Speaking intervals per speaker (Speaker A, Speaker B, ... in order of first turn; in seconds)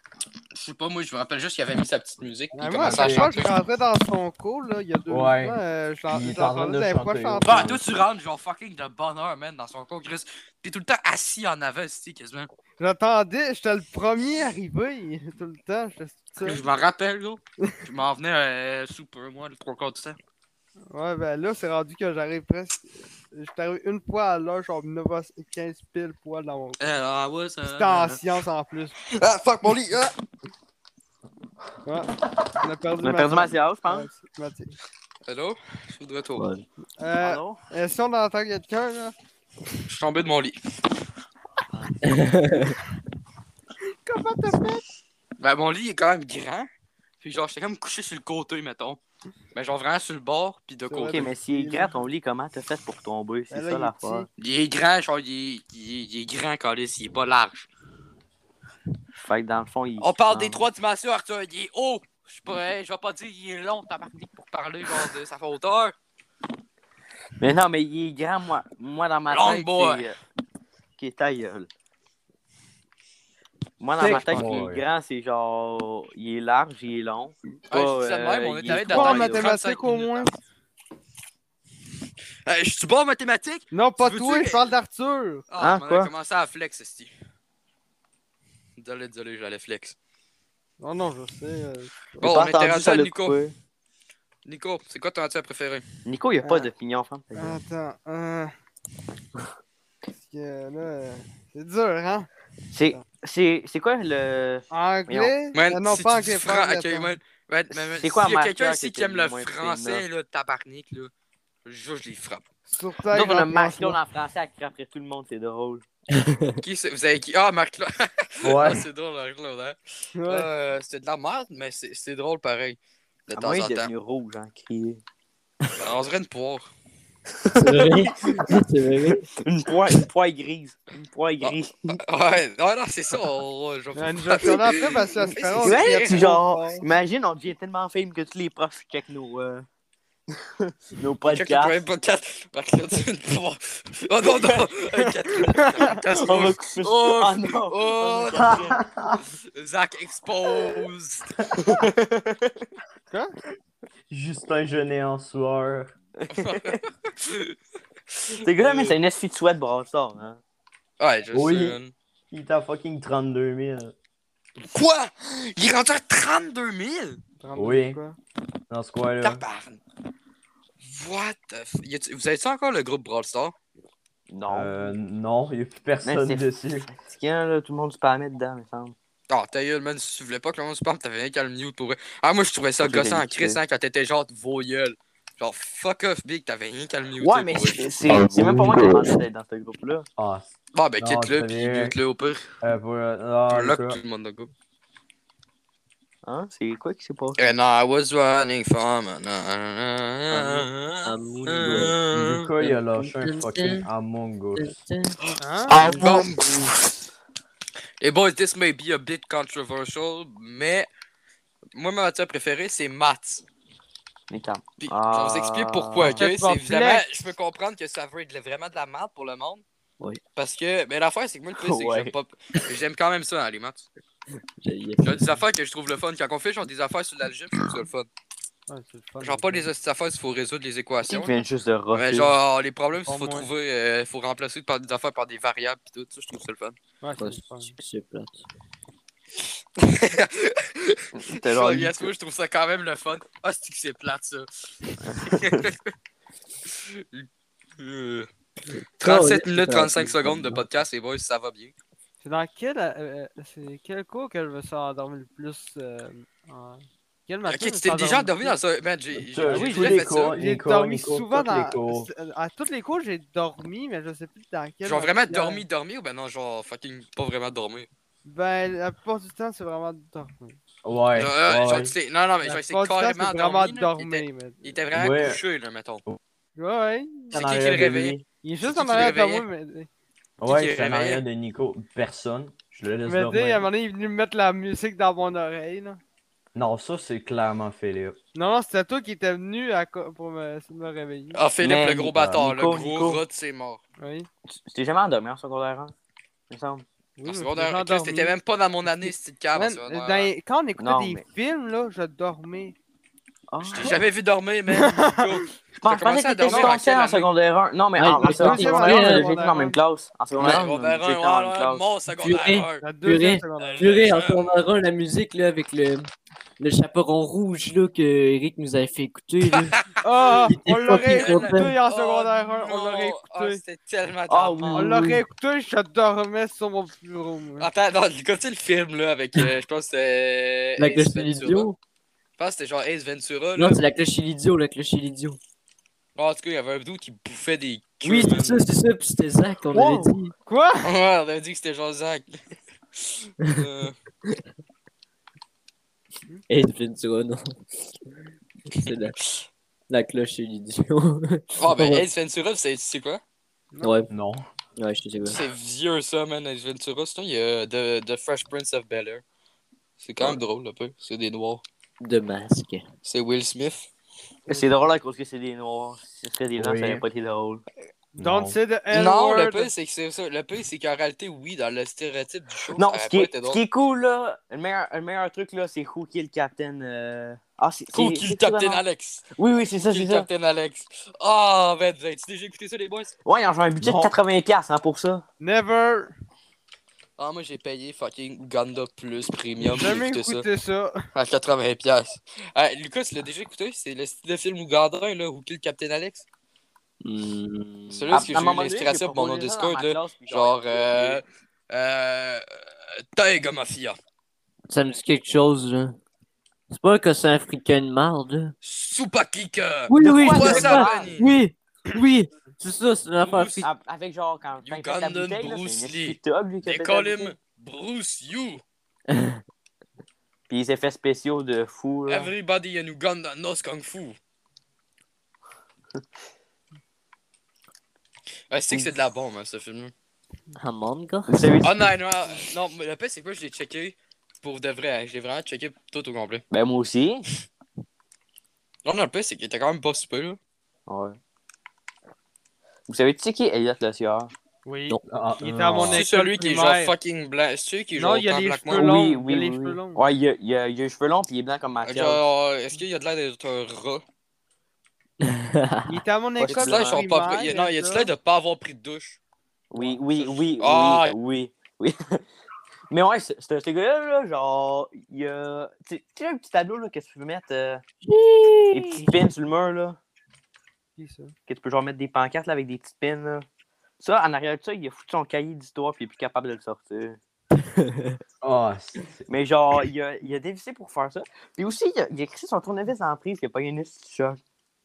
Speaker A: 0.5-3.5, 7.4-12.5, 16.4-20.2, 26.8-28.2, 29.0-30.1, 35.2-36.5, 39.9-40.6, 45.4-46.7, 47.2-49.0, 49.5-51.3, 54.4-57.7, 60.0-65.9, 69.3-70.0, 77.7-80.3, 82.5-84.8, 85.5-87.1, 88.8-90.0, 92.2-93.4, 94.4-95.8, 105.5-111.1, 111.6-112.5, 116.6-123.9, 125.8-126.7, 131.4-136.3, 141.2-151.3, 156.3-157.6, 158.3-158.9, 161.0-161.9, 164.7-167.2, 169.2-169.8, 170.8-173.5, 179.3-187.9, 190.7-192.6, 193.5-194.5, 197.4-202.5, 205.2-206.4, 208.0-210.9, 211.7-213.4, 214.8-219.6, 220.3-223.8, 225.0-228.1, 229.2-231.4, 231.9-236.8, 239.8-244.5, 245.2-245.9, 246.7-247.3, 247.8-248.3, 249.0-251.7, 257.4-260.4, 264.8-267.9, 271.1-276.0, 277.3-279.4, 280.4-281.2, 291.3-293.8, 297.2-300.3, 303.6-307.3, 310.3-312.8, 313.6-314.5, 319.5-324.9, 327.6-331.7, 332.4-333.8, 336.1-338.6, 340.8-342.4, 342.9-343.9, 351.6-353.2, 355.2-359.2, 360.0-361.6, 363.0-363.9, 368.9-373.6, 377.9-379.3, 379.9-383.1, 387.2-390.4, 391.1-396.2, 397.9-402.4, 403.1-404.0, 408.6-411.3, 413.2-413.7, 414.6-418.6, 422.1-424.2, 428.5-429.9, 431.6-436.4, 438.8-440.4, 445.9-448.9, 451.8-454.0, 456.4-459.2, 460.1-461.1
Speaker B: 2.5-7.7, 12.8-16.6, 20.9-26.8, 27.6-28.9, 31.8-34.8, 37.0-39.1, 44.0-44.8, 50.9-51.9, 53.5-54.3, 74.0-74.6, 78.8-80.3, 83.7-85.5, 90.8-92.4, 96.4-96.7, 97.3-98.5, 100.2-102.3, 104.7-107.1, 112.7-114.0, 120.1-120.5, 133.9-136.9, 153.1-153.3, 167.4-168.2, 205.4-205.8, 216.0-217.1, 228.7-229.7, 233.1-233.5, 237.0-237.7, 252.2-258.6, 259.4-265.6, 268.2-270.6, 272.4-274.7, 276.6-277.3, 278.4-279.9, 283.0-286.0, 288.3-291.4, 294.0-294.3, 297.2-298.3, 298.9-302.8, 304.7-305.4, 308.1-309.8, 312.8-313.9, 320.0-323.6, 324.7-327.7, 339.7-340.9, 364.5-364.9, 368.1-369.7, 385.4-386.1, 389.6-391.1, 444.6-446.9, 447.9-450.0, 455.9-458.1, 470.9-471.3
Speaker C: 2.8-3.3, 5.1-5.6, 6.1-7.8, 74.0-74.8, 118.4-118.8, 148.4-149.2, 154.1-155.9, 161.3-161.8, 162.3-163.9, 167.6-168.0, 168.7-169.4, 174.5-176.9, 188.1-189.2, 190.2-190.5, 191.0-191.9, 192.6-194.0, 202.1-204.7, 259.1-262.1, 270.8-271.9, 274.9-275.4, 277.3-278.2, 280.4-283.7, 286.5-288.2, 354.1-354.4, 366.6-367.1, 368.2-368.6, 383.8-384.1, 445.1-446.0, 478.4-479.3
Speaker D: 33.0-34.1, 37.2-37.6, 41.7-42.4, 51.1-54.3, 59.2-60.7, 67.4-70.2, 71.0-71.7, 73.8-79.5, 85.6-86.1, 92.2-93.5, 96.0-97.6, 102.7-105.3, 107.7-110.0, 113.1-115.8, 123.3-125.0, 127.4-132.0, 135.6-139.7, 140.3-141.8, 146.1-148.8, 151.6-152.7, 156.2-156.8, 158.3-160.4, 174.3-174.7, 176.0-178.9, 182.8-183.6, 187.2-190.1, 196.2-197.5, 205.7-206.4, 214.3-216.2, 221.6-222.1, 231.1-232.3, 241.2-242.1, 245.0-245.7, 291.6-293.2, 294.5-295.9, 296.5-296.8, 300.8-301.2, 303.5-304.0, 305.7-311.8, 324.3-325.2, 364.5-367.6, 372.7-380.3, 383.2-385.2, 398.1-401.2, 410.0-411.2, 413.6-417.3, 420.5-422.3, 431.3-431.8, 436.5-437.2, 440.9-441.2, 442.9-444.3, 448.7-452.2, 456.4-457.0, 459.7-462.2, 462.9-467.8, 468.7-470.0, 471.5-473.4, 474.0-477.2, 479.3-484.4
Speaker E: 36.4-36.6, 42.1-42.7, 116.1-116.5, 127.5-129.2, 200.3-202.0, 202.6-203.9, 204.6-205.2, 224.6-225.4, 237.2-238.4, 249.0-250.6, 306.5-306.7, 308.0-309.3, 312.2-319.8, 320.4-321.7, 330.8-331.8, 333.6-335.4, 338.0-340.2, 346.5-347.6, 348.7-349.2, 349.9-352.1, 353.8-354.1, 354.8-355.4, 362.0-362.8, 397.0-398.3, 404.7-406.0, 406.7-408.5, 409.9-413.7, 419.1-419.4, 430.6-431.6, 455.2-456.0, 468.0-469.2, 477.5-478.2